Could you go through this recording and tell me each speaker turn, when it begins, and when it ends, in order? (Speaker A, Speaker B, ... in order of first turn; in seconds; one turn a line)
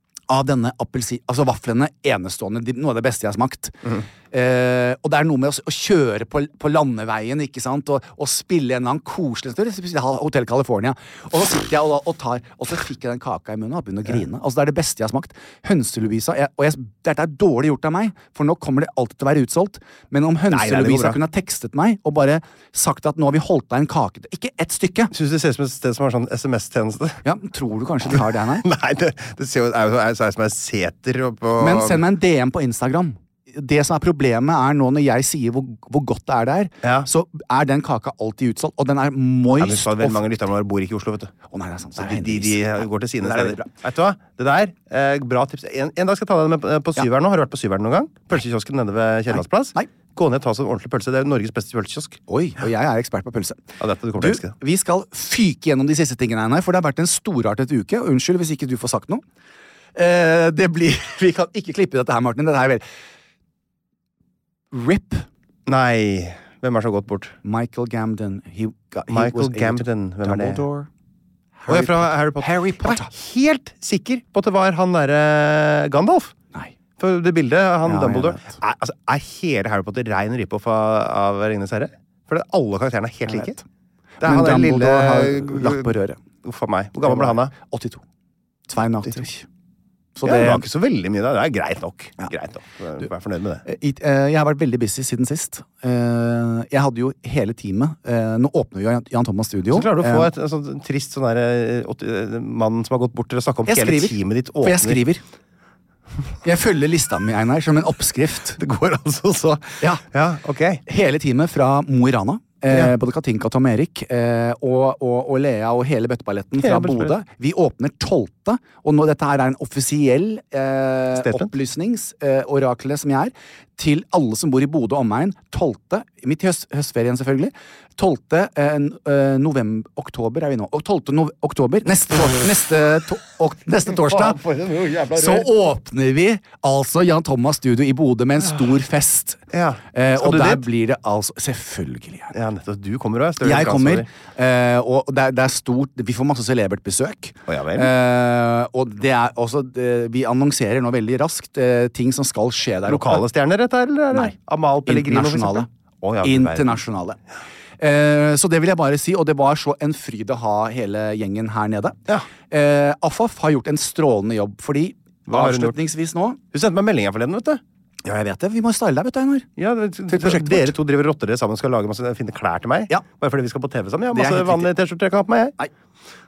Speaker A: 0.3-25.1
Speaker B: 20.5-21.2
Speaker B: 25.1-27.2
Speaker A: 27.2-28.7
Speaker B: 28.1-32.0
Speaker A: 31.6-40.2
Speaker B: 36.8-37.1
Speaker B: 39.6-41.3
Speaker A: 41.5-43.7
Speaker B: 42.0-52.2
Speaker A: 49.3-49.9
Speaker A: 52.3-59.2
Speaker B: 53.8-54.5
Speaker A: 60.0-62.8
Speaker A: 64.7-65.3
Speaker B: 65.7-67.3
Speaker A: 67.4-70.9
Speaker B: 69.1-70.6
Speaker A: 71.6-73.1
Speaker B: 71.7-76.3
Speaker B: 77.0-83.6
Speaker A: 77.8-78.6
Speaker A: 83.3-83.6
Speaker A: 84.2-86.2
Speaker B: 84.2-87.5
Speaker A: 87.0-88.0
Speaker A: 88.7-89.5
Speaker A: 90.2-90.6
Speaker B: 90.2-93.6
Speaker A: 93.7-100.3
Speaker B: 99.7-105.0
Speaker A: 103.7-105.2
Speaker A: 106.4-108.6
Speaker B: 108.6-110.8
Speaker A: 110.9-134.4
Speaker B: 116.6-117.1
Speaker B: 121.1-121.5
Speaker B: 134.0-135.5
Speaker A: 135.1-142.3
Speaker B: 139.5-140.7
Speaker B: 142.3-144.1
Speaker A: 143.4-153.2
Speaker B: 147.5-147.9
Speaker B: 152.9-156.8
Speaker A: 154.9-155.7
Speaker A: 156.2-157.2
Speaker A: 157.8-162.0
Speaker A: 162.5-166.4
Speaker B: 165.3-165.8
Speaker B: 166.5-167.6
Speaker A: 168.1-169.5
Speaker B: 169.6-175.6
Speaker A: 170.1-170.8
Speaker A: 174.1-174.7